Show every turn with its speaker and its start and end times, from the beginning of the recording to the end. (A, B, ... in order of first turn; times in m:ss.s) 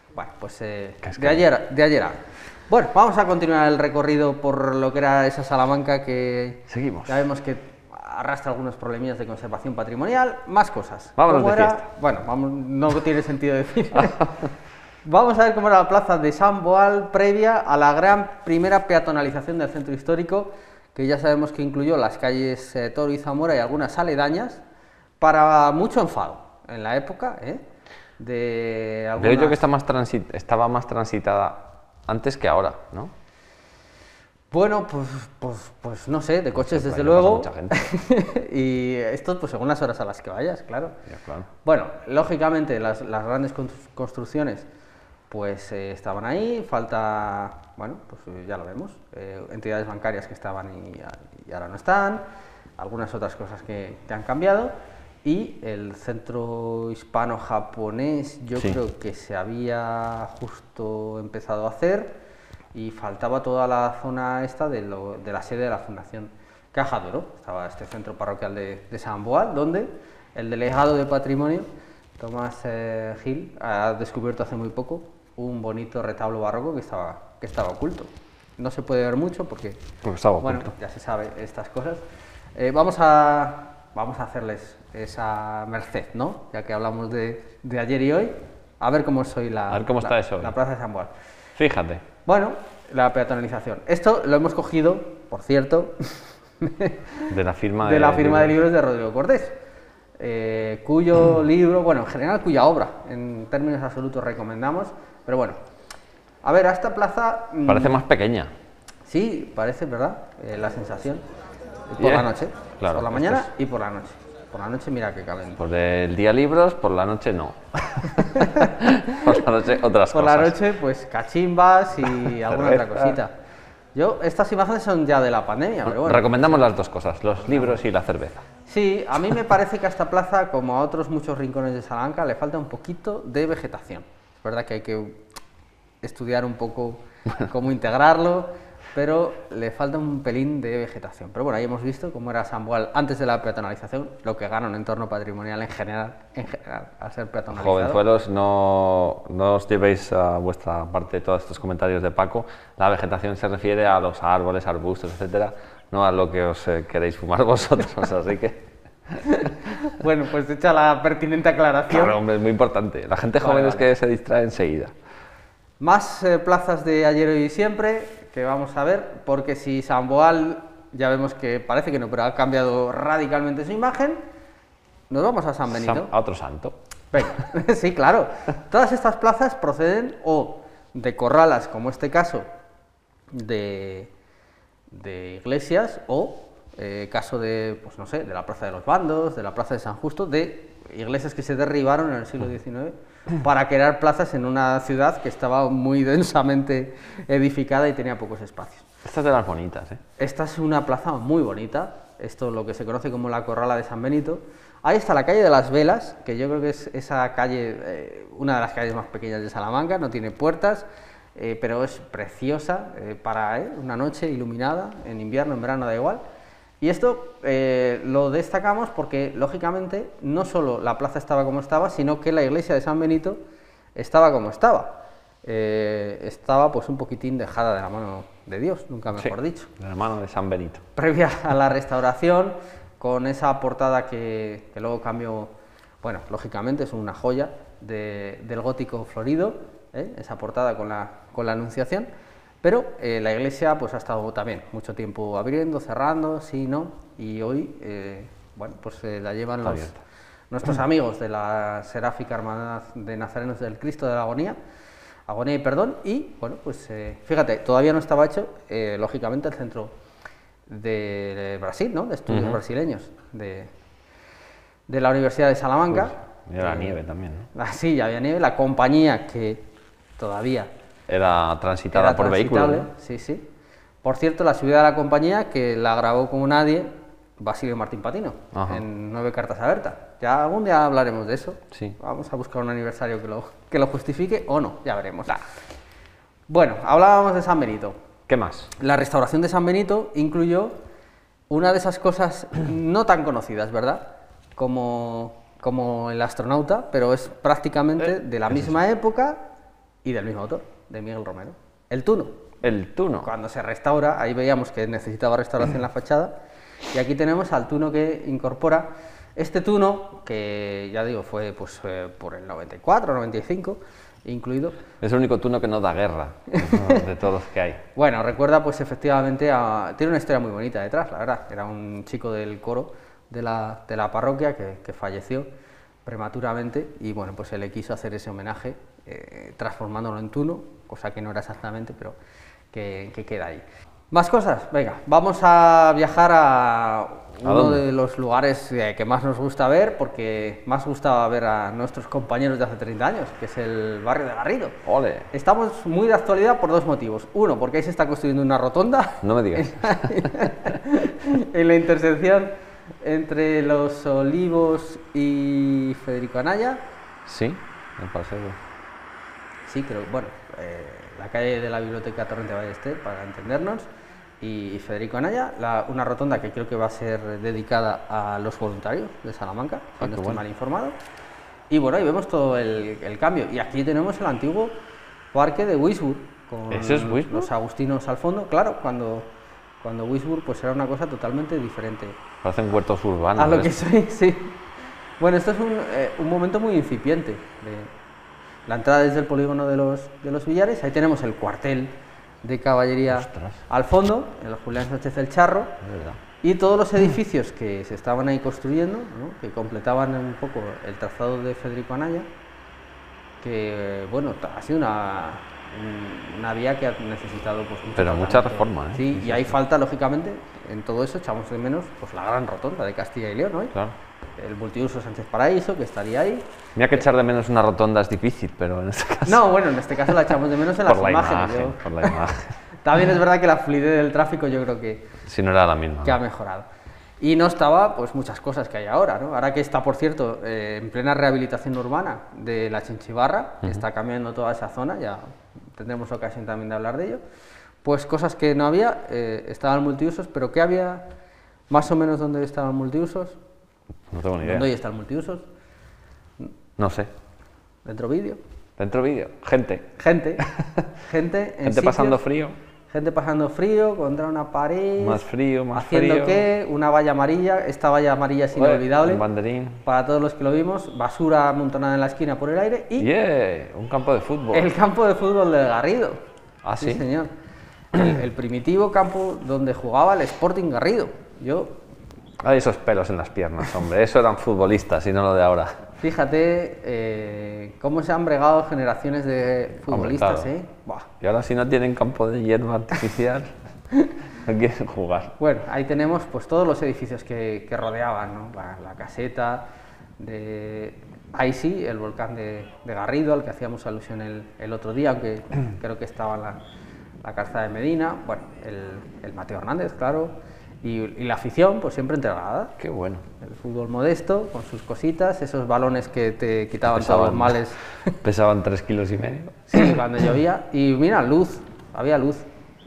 0:00.1-0:14.3 A
0:01.0-0:01.4 B
0:06.7-0:07.2 B
0:11.2-0:11.8 B
0:13.9-0:14.5 B
0:15.0-0:24.6 A
0:25.2-0:27.6 A
0:28.2-0:29.6 A
0:29.2-0:33.1 B
0:34.5-0:41.0 A
0:36.5-0:37.9 B
0:41.1-0:41.5 B
0:41.6-0:44.6 A
0:45.3-0:52.2 A
0:52.8-0:54.7 A
0:55.2-1:02.1 A
1:02.7-1:19.8 A
1:20.0-1:20.7 B
1:20.4-1:22.0 A
1:22.6-1:31.1 A
1:29.7-1:30.5 B
1:31.6-1:32.0 B
1:32.2-1:37.3 A
1:37.3-1:38.6 B
1:37.8-1:39.6 A
1:40.2-1:45.6 A
1:46.4-1:48.0 A
1:47.6-1:48.5 B
1:49.1-1:51.2 A
1:51.9-1:55.6 A
1:52.0-1:53.5 B
1:55.6-2:00.5 B
1:58.2-1:58.8 A
2:00.1-2:03.3 A
2:02.0-2:03.2 B
2:03.9-2:06.5 A
2:05.8-2:08.4 B
2:08.6-2:15.2 A
2:16.0-2:28.0 A
2:27.5-2:39.5 B
2:39.4-2:42.2 A
2:41.9-2:44.9 B
2:43.4-2:43.9 A
2:45.8-2:54.2 A
2:55.1-2:56.1 A
2:55.7-2:56.8 B
2:57.1-3:02.5 A
3:03.3-3:04.1 A
3:04.9-3:18.9 A
3:19.0-3:20.0 B
3:20.2-3:36.2 A
3:36.8-3:43.4 A
3:44.0-3:49.7 A
3:49.2-3:50.8 B
3:51.0-3:55.5 A
3:56.0-4:02.1 A
4:02.6-4:14.6 A
4:09.6-4:09.9 B
4:15.3-4:19.9 A
4:20.7-4:23.7 A
4:22.3-4:22.6 B
4:24.9-4:27.0 A
4:25.9-4:27.5 B
4:27.5-4:29.6 A
4:30.2-4:30.7 A
4:31.1-4:32.9 B
4:31.9-4:33.5 A
4:34.0-4:45.4 A
4:38.5-4:38.8 B
4:41.7-4:42.0 B
4:46.5-4:48.0 A
4:48.3-4:48.7 B
4:48.8-4:50.8 A
4:51.5-4:59.4 A
5:00.0-5:02.4 A
5:02.6-5:03.3 B
5:03.2-5:06.3 A
5:06.9-5:14.8 A
5:15.0-5:17.8 B
5:16.5-5:17.0 A
5:18.0-5:25.5 A
5:26.0-5:32.2 A
5:32.7-5:44.8 A
5:37.4-5:37.8 B
5:44.8-5:45.3 B
5:45.3-5:56.8 A
5:49.2-5:50.7 B
5:57.2-5:58.6 B
5:59.7-6:03.9 A
6:04.4-6:11.0 A
6:10.0-6:10.4 B
6:11.7-6:14.7 A
6:15.3-6:19.3 A
6:16.7-6:17.5 B
6:19.8-6:22.2 A
6:22.4-6:23.7 B
6:23.4-6:24.6 A
6:25.2-6:27.9 A
6:28.7-6:35.8 A
6:33.2-6:33.6 B
6:35.8-6:36.2 B
6:36.4-6:42.3 A
6:43.4-6:53.7 A
6:48.0-6:49.5 B
6:54.4-6:56.4 A
6:56.7-6:59.5 B
6:59.2-7:02.2 A
7:00.8-7:02.6 B
7:02.8-7:05.1 A
7:05.2-7:06.2 B
7:06.0-7:06.7 A
7:07.2-7:17.2 A
7:17.8-7:21.1 A
7:21.7-7:23.4 A
7:24.1-7:24.7 B
7:24.4-7:25.4 A
7:26.8-7:27.1 B
7:27.8-7:28.4 A
7:28.8-7:30.9 B
7:30.0-7:30.4 A
7:31.0-7:32.2 A
7:31.6-7:32.6 B
7:32.9-7:35.2 A
7:35.0-7:36.4 B
7:35.7-7:39.2 A
7:38.5-7:39.8 B
7:39.8-7:43.1 A
7:43.0-7:44.7 B
7:44.5-7:46.2 A
7:46.6-7:47.0 B
7:46.8-7:47.3 A
7:47.9-7:51.8 A
7:52.4-7:55.8 B
7:56.0-8:01.1 A
7:59.9-8:00.5 B
8:01.2-8:03.5 B
8:04.3-8:05.4 B
8:05.4-8:09.6 A
8:10.2-8:16.6 A
8:17.2-8:22.8 A
8:22.8-8:23.2 B
8:23.4-8:28.1 A
8:26.8-8:30.0 B
8:29.7-8:32.5 A